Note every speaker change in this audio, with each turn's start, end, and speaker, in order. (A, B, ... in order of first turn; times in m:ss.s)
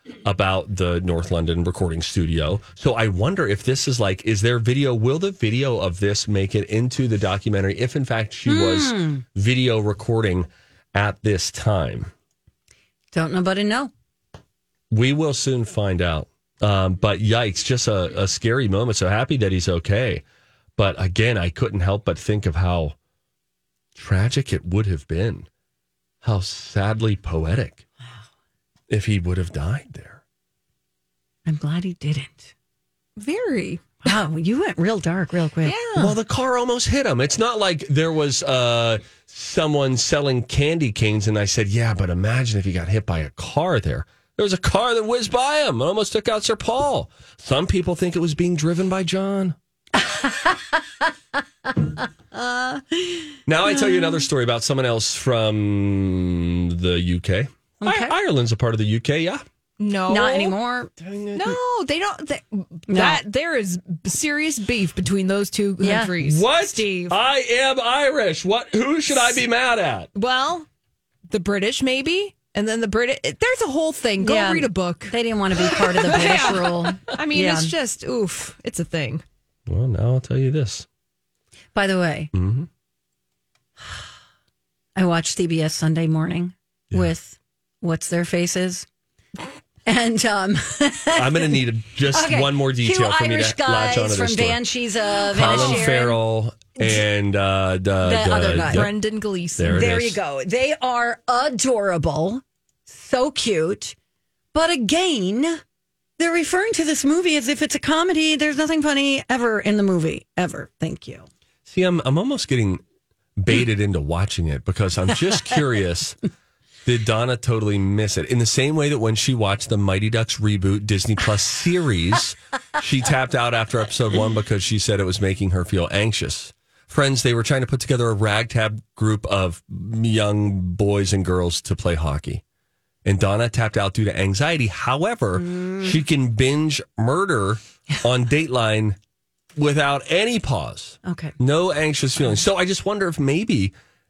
0:00.2-0:12.1 A
0:08.4-0:09.2 B
0:13.1-0:13.9 B
0:14.9-0:20.2 A
0:20.8-0:22.9 A
0:23.9-0:25.5 A
0:26.2-0:27.8 A
0:28.9-0:30.2 A
0:31.4-0:32.5 B
0:33.2-0:33.8 C
0:34.0-0:35.8 B
0:35.6-0:36.1 C
0:36.0-0:49.6 A
0:50.0-0:50.6 B
0:53.5-0:59.4 A
0:57.8-0:58.2 B
0:59.8-1:00.6 C
1:00.1-1:00.9 B
1:01.0-1:01.6 A
1:01.3-1:07.2 C
1:02.9-1:03.2 B
1:05.8-1:06.1 B
1:06.2-1:10.1 A
1:10.1-1:10.7 C
1:11.3-1:19.2 C
1:14.2-1:17.7 B
1:19.7-1:20.9 A
1:21.7-1:22.3 B
1:22.3-1:22.7 A
1:25.0-1:28.9 B
1:29.9-1:31.6 B
1:31.1-1:34.6 A
1:32.1-1:36.2 B
1:35.3-1:35.9 C
1:35.3-1:38.9 A
1:38.0-1:38.9 B
1:38.6-1:39.8 C
1:39.6-1:40.2 A
1:39.7-1:44.0 B
1:44.5-1:45.6 B
1:46.2-1:51.3 B
1:51.6-1:52.8 A
1:53.4-1:56.2 A
1:56.8-2:12.4 A
2:13.0-2:19.0 A
2:15.4-2:15.9 B
2:19.6-2:23.7 A
2:21.0-2:21.3 B